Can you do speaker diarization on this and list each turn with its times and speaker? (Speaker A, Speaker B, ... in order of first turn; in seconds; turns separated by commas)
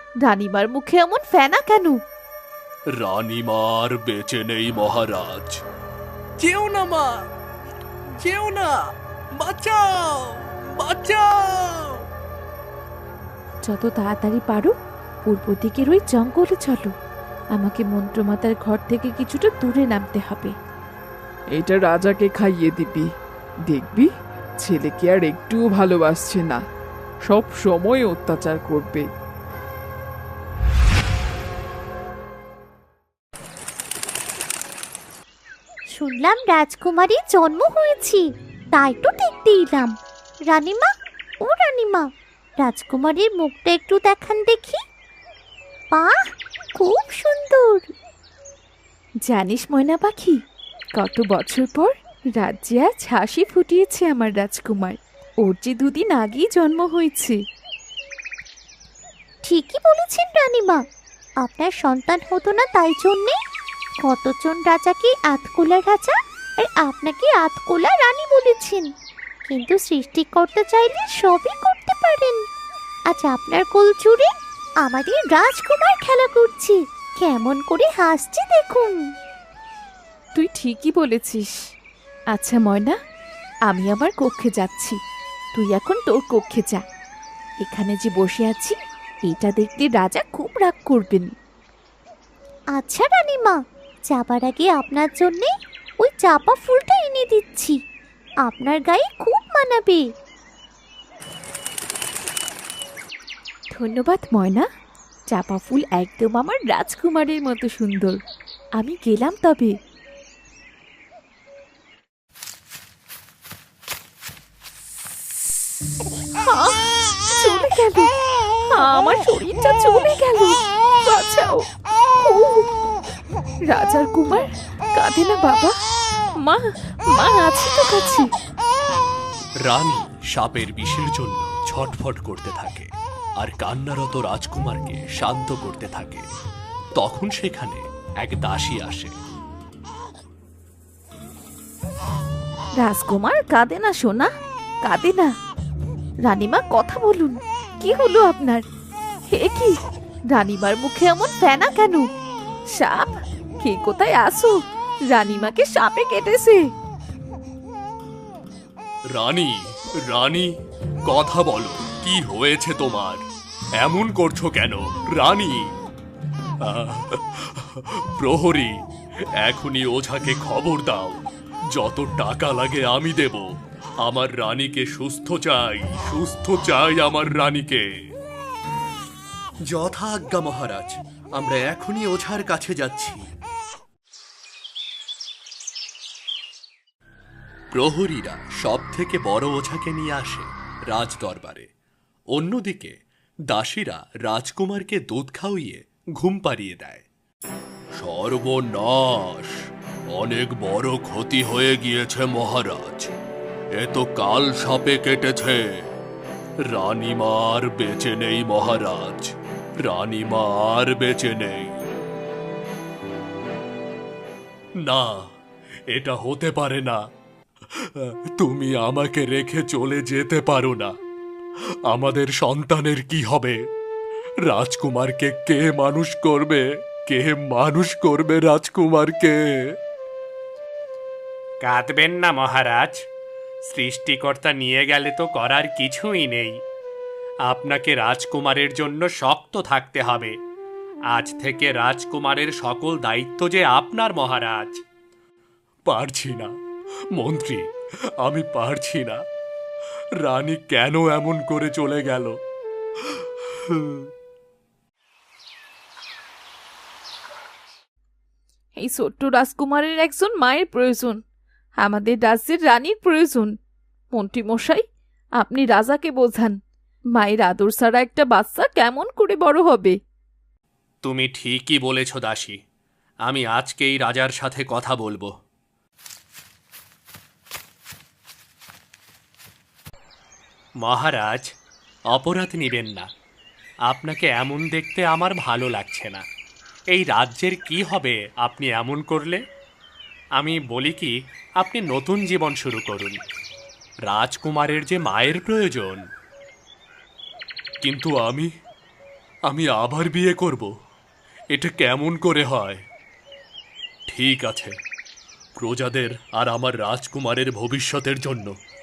Speaker A: 0.2-2.0, Speaker B: 3.0-5.6, Speaker C: 6.4-7.1, Speaker C: 8.2-8.7, Speaker C: 9.4-11.9, Speaker A: 13.6-14.7, Speaker A: 15.2-16.9, Speaker A: 17.5-20.5, Speaker D: 21.6-23.0, Speaker D: 23.7-24.1, Speaker D: 24.7-26.6, Speaker D: 27.3-29.0, Speaker E: 35.9-39.9, Speaker E: 40.5-40.9, Speaker E: 41.4-42.0, Speaker E: 42.6-44.8, Speaker E: 46.8-47.9, Speaker A: 49.2-50.4, Speaker A: 51.0-57.4, Speaker E: 59.4-60.8, Speaker E: 61.4-63.4, Speaker E: 64.0-68.9, Speaker E: 69.5-72.4, Speaker E: 73.1-74.3, Speaker E: 74.8-79.0, Speaker A: 80.3-81.5, Speaker A: 82.3-83.0, Speaker A: 83.7-85.0, Speaker A: 85.5-86.8, Speaker A: 87.6-88.7, Speaker A: 89.2-91.3, Speaker E: 92.7-93.6, Speaker E: 94.1-95.5, Speaker E: 96.0-97.7, Speaker E: 98.4-100.0, Speaker A: 103.7-104.7, Speaker A: 105.3-108.2, Speaker A: 108.8-109.7, Speaker A: 116.4-118.1, Speaker A: 118.7-121.6, Speaker A: 122.2-122.7, Speaker A: 123.7-125.7, Speaker A: 126.4-128.3, Speaker B: 129.6-132.9, Speaker B: 133.4-136.2, Speaker B: 136.9-139.1, Speaker A: 142.8-144.3, Speaker A: 144.8-145.3, Speaker A: 146.2-148.6, Speaker A: 149.3-149.8, Speaker A: 150.3-152.1, Speaker A: 152.7-154.6, Speaker A: 155.1-156.7, Speaker B: 159.1-160.5, Speaker B: 161.0-163.2, Speaker B: 163.8-165.7, Speaker B: 166.6-168.7, Speaker B: 169.4-171.2, Speaker B: 171.7-173.4, Speaker B: 174.0-177.8, Speaker B: 179.7-183.2, Speaker B: 187.7-191.7, Speaker B: 192.3-192.9, Speaker B: 193.5-197.0, Speaker B: 198.0-199.6, Speaker B: 200.1-203.1, Speaker B: 203.8-205.8, Speaker B: 206.7-211.8, Speaker B: 214.8-215.2, Speaker B: 215.9-217.0, Speaker B: 217.8-220.9, Speaker B: 221.9-223.6, Speaker B: 224.5-229.4, Speaker F: 231.6-233.0, Speaker F: 233.7-236.6, Speaker F: 237.4-240.3, Speaker F: 241.1-244.8, Speaker B: 245.9-246.5, Speaker B: 247.2-247.7, Speaker B: 248.2-249.2, Speaker B: 250.2-252.3, Speaker B: 253.7-254.1, Speaker A: 258.8-261.2, Speaker A: 261.8-263.5, Speaker A: 264.1-264.8, Speaker A: 265.4-266.6, Speaker A: 267.1-269.9, Speaker F: 271.0-272.6, Speaker B: 271.8-272.3, Speaker F: 273.2-275.2, Speaker F: 280.8-281.5, Speaker F: 282.1-283.1, Speaker F: 283.9-286.2, Speaker F: 286.9-289.4, Speaker F: 290.4-293.2, Speaker F: 294.0-296.0, Speaker B: 297.8-298.5, Speaker B: 299.5-300.7, Speaker B: 301.5-302.8, Speaker B: 304.1-304.7, Speaker B: 305.6-308.5